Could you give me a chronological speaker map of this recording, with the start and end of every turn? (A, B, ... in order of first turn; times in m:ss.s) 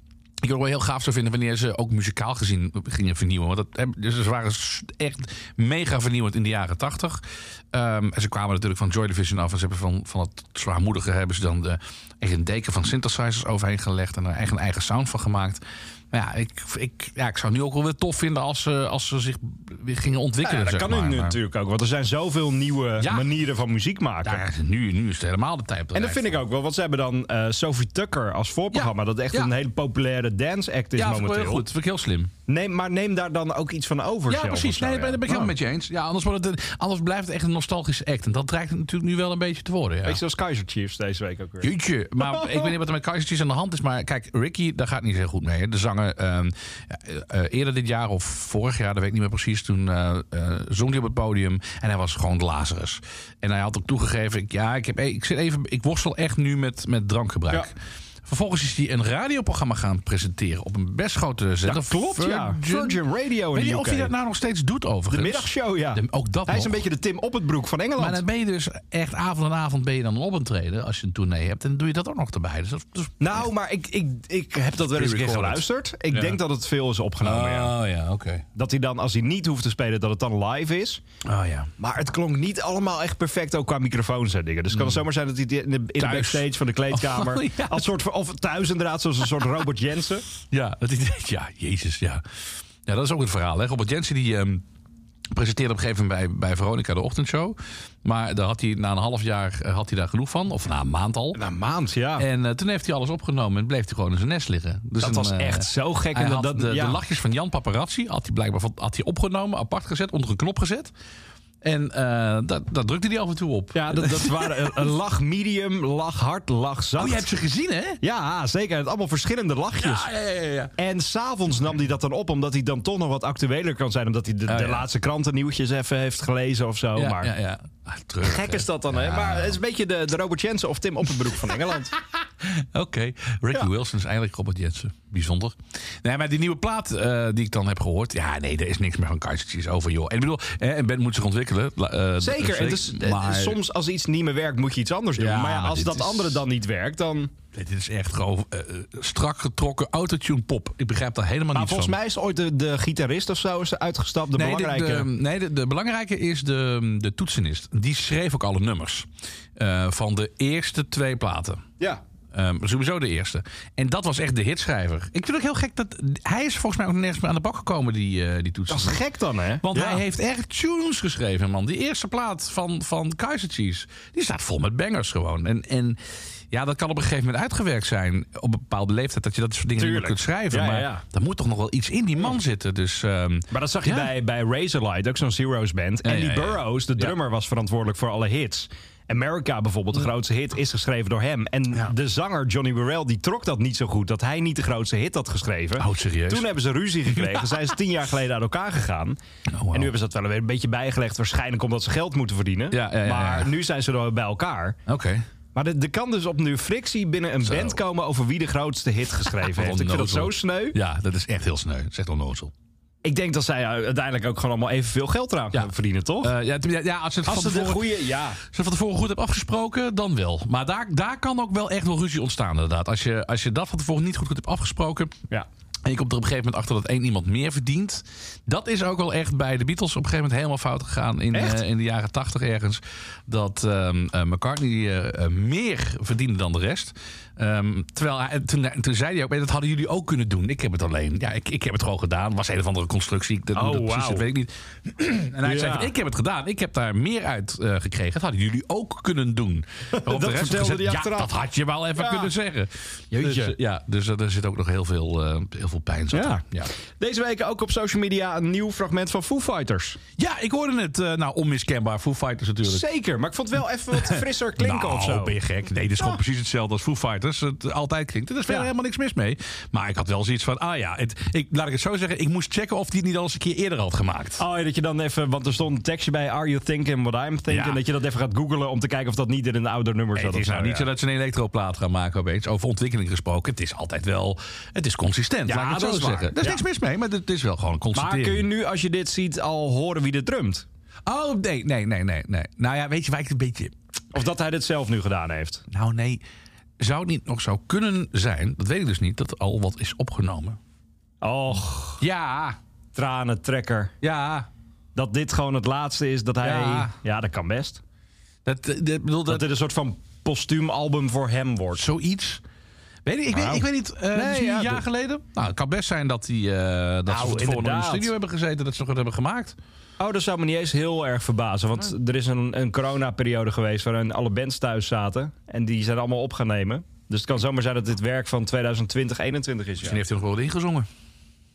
0:00.4-0:21.4 A
0:20.4-0:24.5 B
0:23.0-0:23.3 A
0:24.2-0:26.4 A
0:25.9-0:31.7 B
0:28.7-0:29.5 A
0:31.0-0:32.3 A
0:32.5-0:35.5 B
0:34.3-0:40.2 A
0:40.0-0:42.7 B
0:41.6-1:03.0 A
1:01.6-1:04.1 B
1:03.5-1:06.8 A
1:05.1-1:08.2 B
1:08.0-1:13.5 A
1:13.2-1:17.7 B
1:14.9-1:16.4 A
1:17.2-1:18.5 A
1:18.6-1:21.0 B
1:21.2-1:21.7 A
1:21.8-1:30.2 B
1:24.7-1:25.0 A
1:26.0-1:27.9 A
1:30.5-1:32.2 A
1:32.9-1:34.6 A
1:35.3-1:41.4 A
1:41.4-1:42.3 B
1:42.2-1:50.9 A
1:45.0-1:47.0 B
1:51.6-1:54.9 A
1:53.7-1:57.2 B
1:57.0-1:58.0 A
1:58.0-2:00.1 B
1:59.8-2:00.7 A
2:00.8-2:07.3 B
2:04.5-2:04.9 A
2:07.0-2:09.6 A
2:08.2-2:12.0 B
2:12.0-2:23.6 A
2:22.2-2:27.3 B
2:25.2-2:26.4 A
2:27.5-2:32.0 A
2:31.5-2:35.1 B
2:34.3-2:41.7 A
2:42.3-2:49.0 A
2:48.7-2:50.0 B
2:49.6-3:04.1 A
2:59.8-3:01.0 B
3:03.5-3:19.2 B
3:06.0-3:07.2 A
3:15.8-3:16.5 A
3:17.1-3:17.6 A
3:19.5-3:19.9 A
3:19.7-3:24.8 B
3:22.7-3:23.5 A
3:24.9-3:25.2 A
3:25.6-3:30.8 B
3:27.4-3:27.8 A
3:29.4-3:32.5 A
3:33.0-3:36.3 B
3:36.2-3:45.2 A
3:37.2-3:38.4 B
3:45.8-4:16.7 A
3:51.3-3:51.6 B
4:03.5-4:04.2 B
4:05.4-4:05.9 B
4:09.9-4:11.3 B
4:12.0-4:12.3 B
4:13.1-4:13.6 B
4:16.1-4:20.0 B
4:20.2-4:22.9 A
4:22.6-4:25.4 B
4:23.9-4:34.4 A
4:34.4-4:40.9 B
4:37.5-4:37.8 A
4:40.2-4:48.5 A
4:45.5-4:46.6 B
4:47.9-4:50.7 B
4:51.1-4:53.7 A
4:54.1-4:55.7 B
4:55.7-4:56.2 A
4:56.8-5:00.6 A
5:01.2-5:02.0 B
5:02.0-5:02.6 A
5:03.0-5:04.0 B
5:04.0-5:04.5 A
5:05.0-5:07.8 B
5:06.4-5:06.9 A
5:08.4-5:09.5 A
5:09.3-5:11.8 B
5:11.8-5:12.4 A
5:13.0-5:19.6 A
5:13.3-5:14.8 B
5:17.1-5:18.1 B
5:20.0-5:30.0 B
5:29.8-5:30.9 A